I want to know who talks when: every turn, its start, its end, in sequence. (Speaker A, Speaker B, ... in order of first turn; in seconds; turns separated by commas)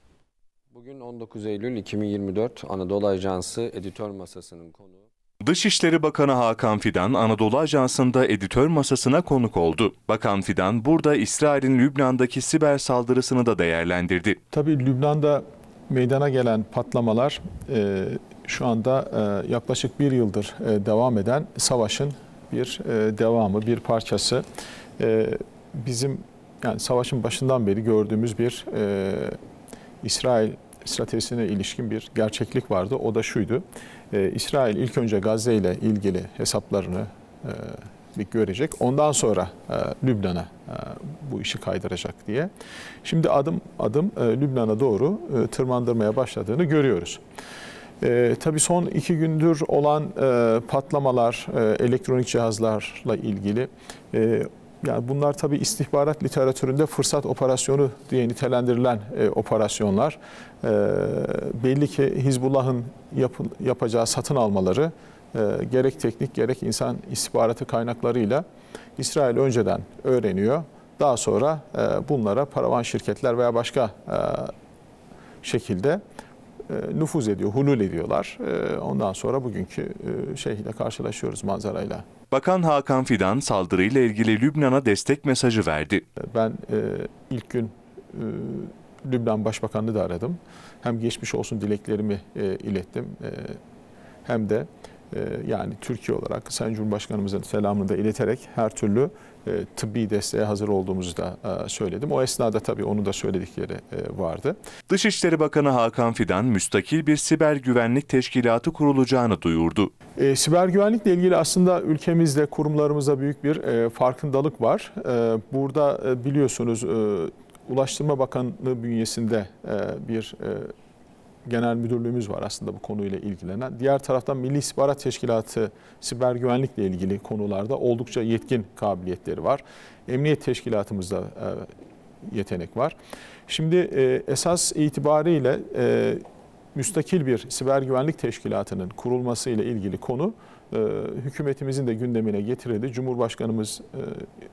Speaker A: 0.7-5.0, Speaker B: 5.4-14.4, Speaker C: 14.5-24.4, Speaker C: 25.0-29.4, Speaker C: 30.0-42.5, Speaker C: 43.0-47.2, Speaker C: 48.0-68.4, Speaker C: 69.0-74.5, Speaker C: 75.4-76.0, Speaker C: 76.7-82.0, Speaker B: 82.3-86.0, Speaker C: 86.2-93.6, Speaker C: 94.2-104.5, Speaker B: 104.9-109.9, Speaker C: 110.2-120.7, Speaker C: 121.5-131.7, Speaker C: 132.2-132.9, Speaker C: 133.5-136.2, Speaker C: 136.7-144.3